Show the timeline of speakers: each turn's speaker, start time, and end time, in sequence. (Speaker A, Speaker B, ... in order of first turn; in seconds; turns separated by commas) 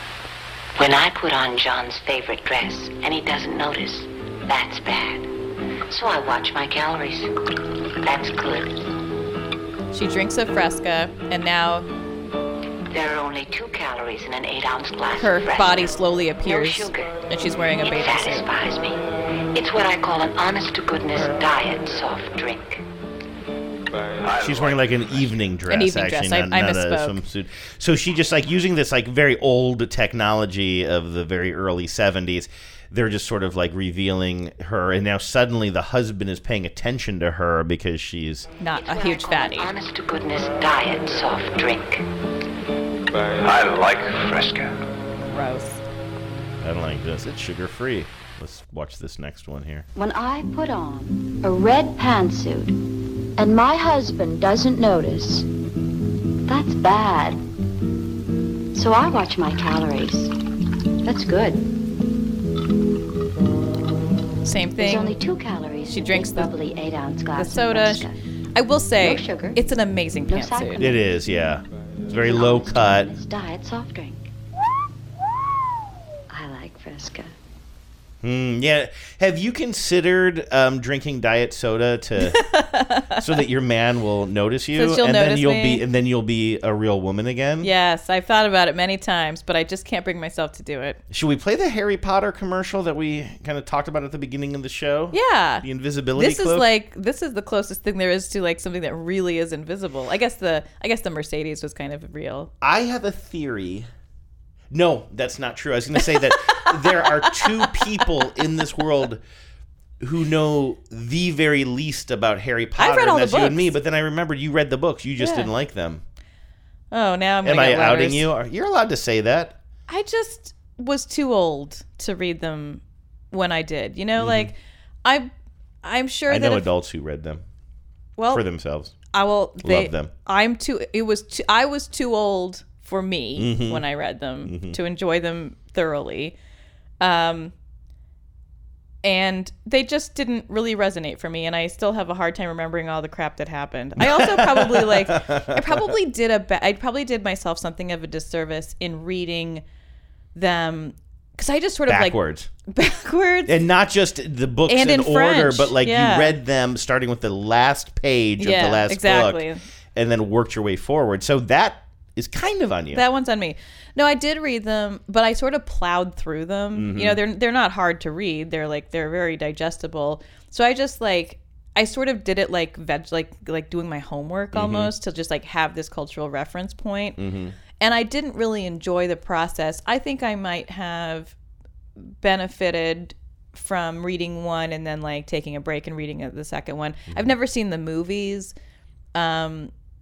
Speaker A: 0.8-5.3, Speaker A: 5.9-7.3, Speaker A: 8.0-8.8, Speaker B: 9.9-11.9, Speaker A: 12.9-15.9, Speaker B: 15.2-18.5, Speaker A: 16.4-17.2, Speaker A: 17.8-19.0, Speaker A: 19.5-22.8, Speaker C: 24.2-25.0, Speaker D: 24.3-38.5, Speaker B: 25.7-27.2, Speaker B: 38.6-39.7, Speaker A: 38.7-42.0, Speaker C: 43.3-44.8, Speaker B: 45.3-45.8, Speaker D: 46.6-49.9, Speaker E: 50.0-52.8, Speaker E: 53.4-55.5, Speaker E: 56.5-57.4, Speaker E: 58.7-60.3, Speaker E: 61.0-61.6, Speaker B: 64.5-65.2, Speaker E: 64.8-68.2, Speaker B: 65.9-66.5, Speaker B: 67.4-70.9, Speaker E: 69.0-69.6, Speaker E: 70.3-71.1, Speaker D: 70.8-73.1, Speaker E: 72.2-74.3, Speaker E: 76.3-77.3, Speaker D: 78.2-82.4, Speaker B: 82.2-83.3, Speaker D: 83.2-87.7, Speaker B: 84.7-85.8, Speaker B: 87.6-91.0, Speaker D: 91.1-96.7, Speaker B: 95.1-102.5, Speaker D: 102.6-103.9, Speaker D: 104.7-109.2, Speaker B: 106.0-107.7, Speaker D: 110.0-116.0, Speaker B: 112.8-113.7, Speaker B: 115.2-115.5, Speaker B: 116.9-118.3, Speaker D: 117.4-119.6, Speaker B: 119.9-125.3, Speaker D: 124.2-124.5, Speaker B: 125.8-126.7, Speaker D: 126.3-127.4, Speaker B: 128.2-128.4, Speaker D: 128.3-128.9, Speaker B: 129.1-136.4, Speaker D: 129.6-130.1, Speaker D: 133.4-133.8, Speaker D: 134.4-134.8, Speaker B: 137.0-137.5, Speaker B: 139.0-149.6, Speaker D: 144.0-145.9, Speaker B: 150.3-153.6, Speaker D: 151.9-152.5, Speaker D: 153.5-163.0, Speaker B: 154.7-156.4, Speaker B: 158.4-159.6, Speaker B: 162.9-177.2, Speaker D: 166.7-167.2, Speaker D: 174.5-174.9, Speaker D: 177.2-177.6, Speaker B: 177.8-181.3, Speaker B: 182.0-188.5, Speaker B: 189.1-189.7